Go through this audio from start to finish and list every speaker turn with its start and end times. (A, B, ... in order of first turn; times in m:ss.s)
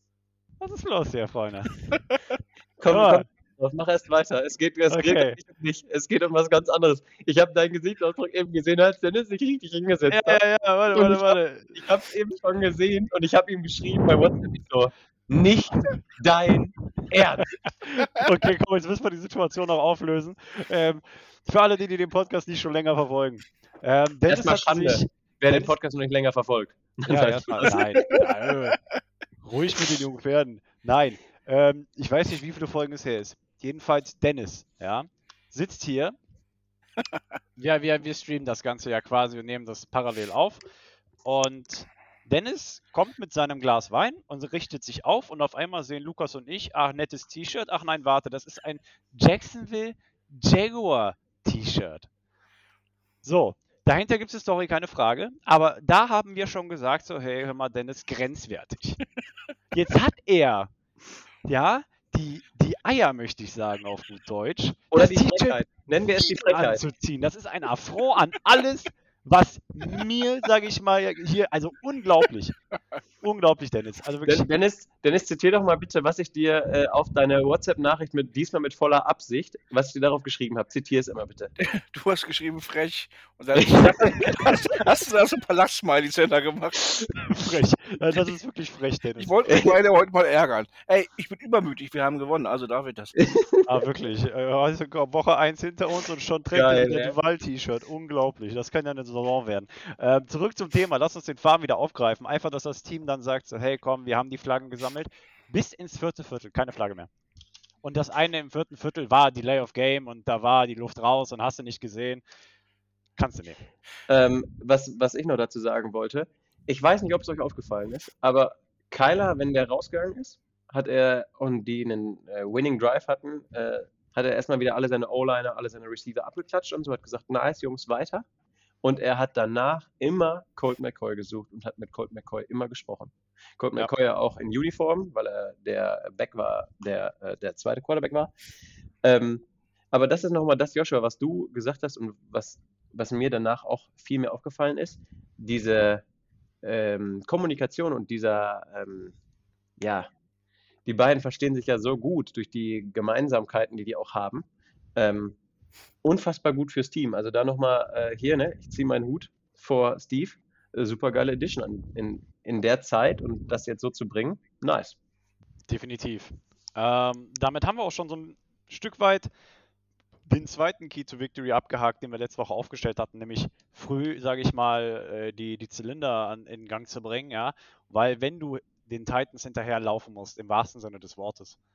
0:00.6-0:01.8 A
0:02.8-0:10.4 B
0:02.9-0:03.2 A
0:04.9-0:05.4 A
0:10.1-0:11.8 A
0:10.9-0:17.5 B
0:17.2-0:25.7 A
0:24.3-0:28.1 B
0:27.1-0:28.8 A
0:29.4-0:36.2 A
0:37.6-0:40.6 A
0:41.2-0:52.1 A
0:53.2-0:59.0 A
0:59.7-1:00.7 A
1:01.4-1:12.6 A
1:04.9-1:06.8 B
1:13.2-1:14.5 A
1:14.3-1:21.6 B
1:21.6-1:27.1 C
1:23.5-1:24.5 B
1:27.3-1:29.3 A
1:29.2-1:33.2 C
1:29.5-1:29.7 B
1:33.2-1:33.6 B
1:33.6-1:47.1 A
1:36.5-1:37.1 B
1:47.8-1:52.2 A
1:53.2-1:53.6 A
1:54.1-2:08.2 B
2:08.8-2:18.3 B
2:19.0-2:26.0 B
2:26.6-2:29.1 B
2:29.8-2:30.1 B
2:30.8-2:35.4 B
2:36.0-2:45.0 B
2:45.7-2:49.3 A
2:50.3-3:01.6 A